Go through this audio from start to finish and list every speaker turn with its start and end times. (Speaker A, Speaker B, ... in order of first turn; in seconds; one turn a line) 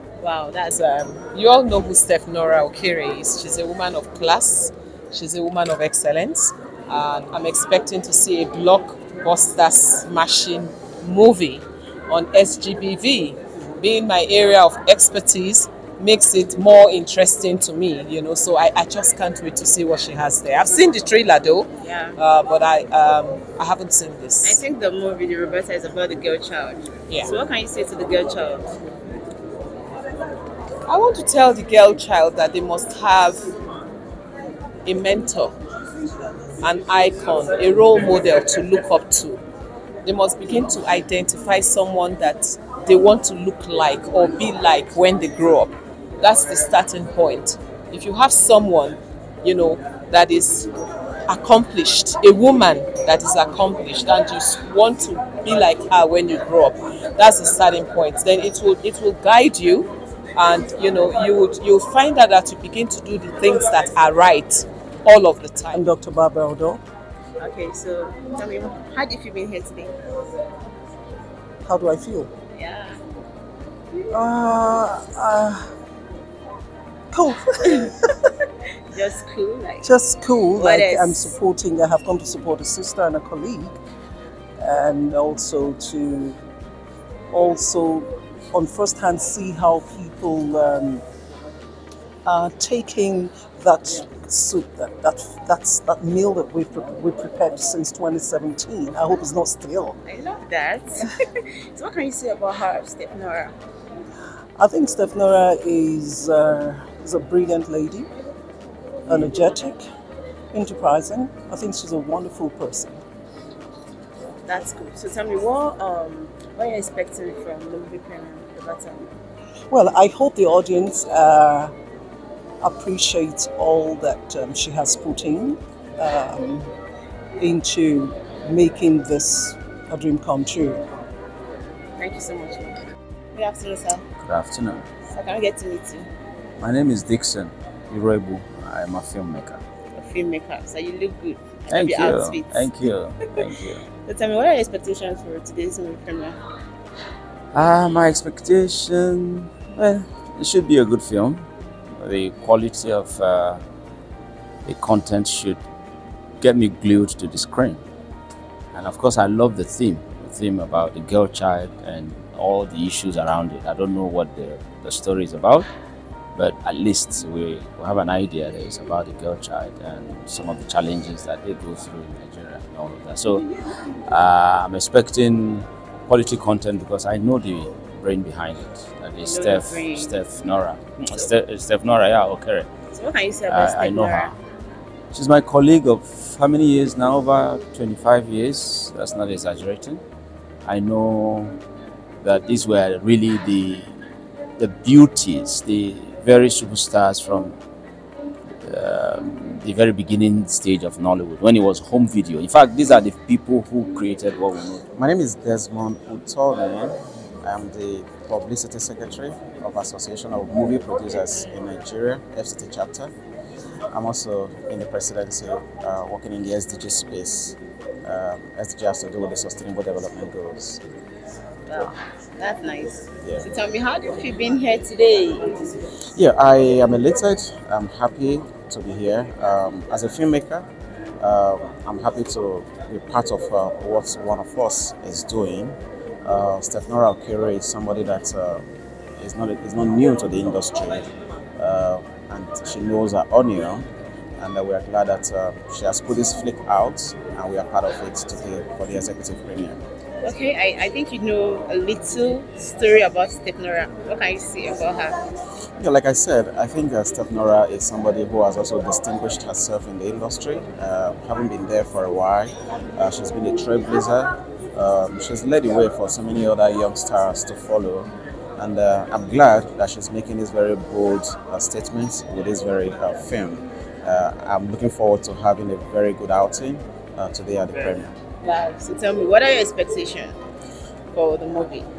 Speaker A: 0.2-1.2
Speaker B: 1.3-24.6
Speaker A: 21.8-22.2
Speaker A: 24.4-28.7
Speaker B: 27.1-27.3
Speaker B: 30.9-33.5
Speaker B: 34.9-35.5
Speaker B: 36.6-39.4
Speaker B: 40.0-50.7
Speaker B: 51.3-65.8
Speaker C: 65.7-66.8
Speaker A: 67.4-69.9
Speaker C: 71.6-72.3
Speaker A: 72.5-73.0
Speaker C: 74.1-75.6
Speaker C: 77.1-78.1
Speaker A: 78.9-79.9
Speaker C: 79.8-83.8
Speaker A: 80.5-81.3
Speaker C: 84.6-86.4
Speaker C: 87.3-91.0
Speaker C: 92.2-100.0
Speaker A: 100.0-103.5
Speaker C: 104.6-108.1
Speaker C: 109.1-109.8
Speaker C: 110.5-113.0
Speaker A: 114.5-119.1
Speaker C: 119.7-121.7
Speaker C: 122.6-126.7
Speaker C: 127.4-130.8
Speaker A: 132.0-132.8
Speaker A: 133.3-134.0
Speaker D: 134.2-134.9
Speaker A: 135.1-136.1
Speaker D: 136.6-139.6
Speaker A: 139.9-142.7
Speaker D: 141.7-143.9
Speaker A: 144.0-146.4
Speaker D: 147.5-151.4
Speaker D: 152.0-153.6
Speaker D: 154.7-155.6
Speaker D: 156.4-157.8
Speaker D: 158.7-165.7
Speaker D: 166.3-173.5
Speaker D: 174.1-182.7
Speaker A: 179.2-180.2
Speaker A: 182.9-184.3
Speaker D: 183.4-184.3
Speaker D: 185.1-190.0
Speaker D: 190.6-191.6
Speaker D: 192.2-193.9
Speaker D: 194.6-197.6
Speaker D: 198.6-204.8
Speaker E: 204.9-213.1
Speaker E: 213.9-220.8
Speaker A: 221.7-225.6
Speaker E: 223.2-223.5
Speaker E: 226.1-230.7
Speaker E: 231.2-238.7
Speaker E: 239.2-243.9
Speaker E: 244.4-249.8
Speaker A: 250.2-255.2
Speaker E: 255.8-278.1
Speaker A: 278.4-280.4
Speaker A: 281.1-281.9